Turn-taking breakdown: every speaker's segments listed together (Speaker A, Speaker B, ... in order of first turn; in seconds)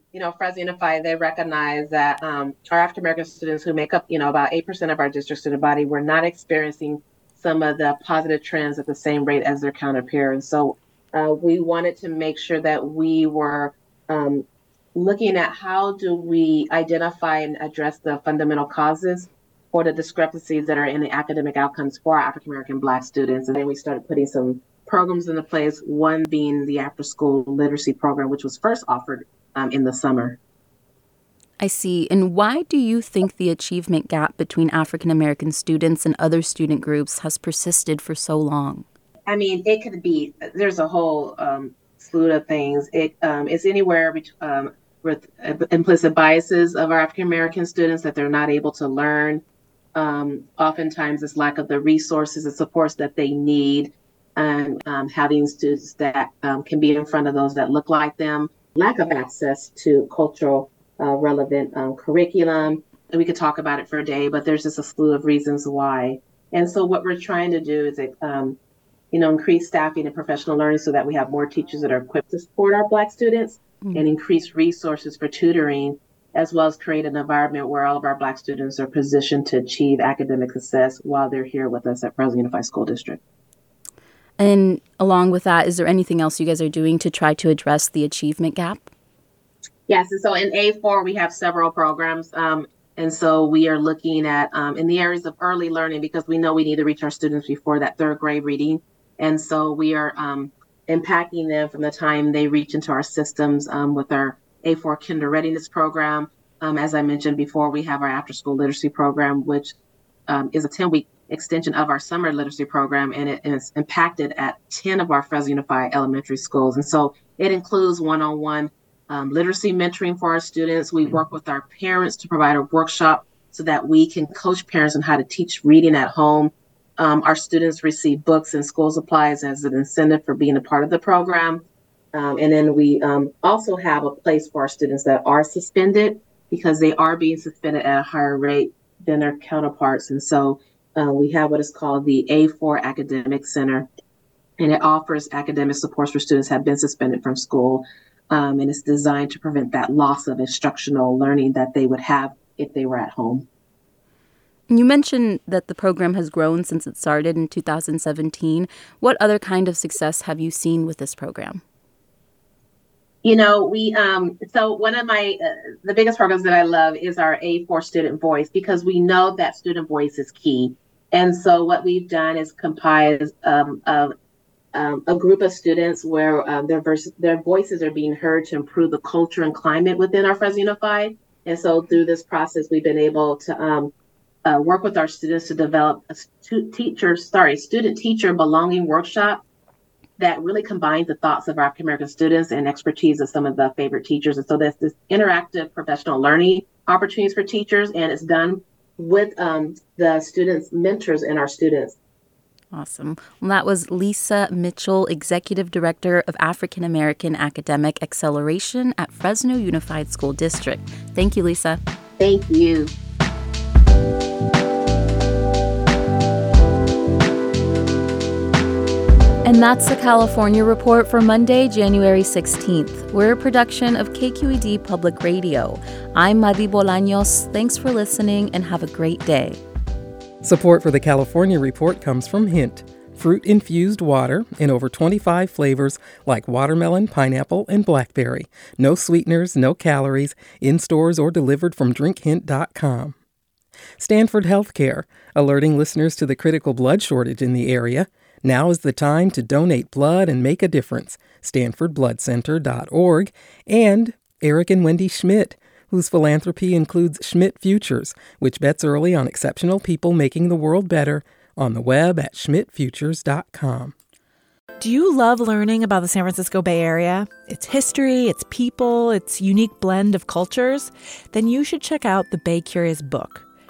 Speaker A: 0.1-30.4, 39.3-49.4, 50.0-68.6, 69.1-83.2, 89.9-109.8, 110.3-143.9, 144.6-153.5, 163.2-174.1, 174.7-183.9, 184.5-189.4, 190.2-202.0, 212.2-212.9
Speaker B: 31.6-38.9, 84.4-88.9, 154.7-161.6, 202.7-211.8, 219.4-229.6
Speaker C: 230.4-243.2, 244.0-263.9
Speaker D: 264.8-273.4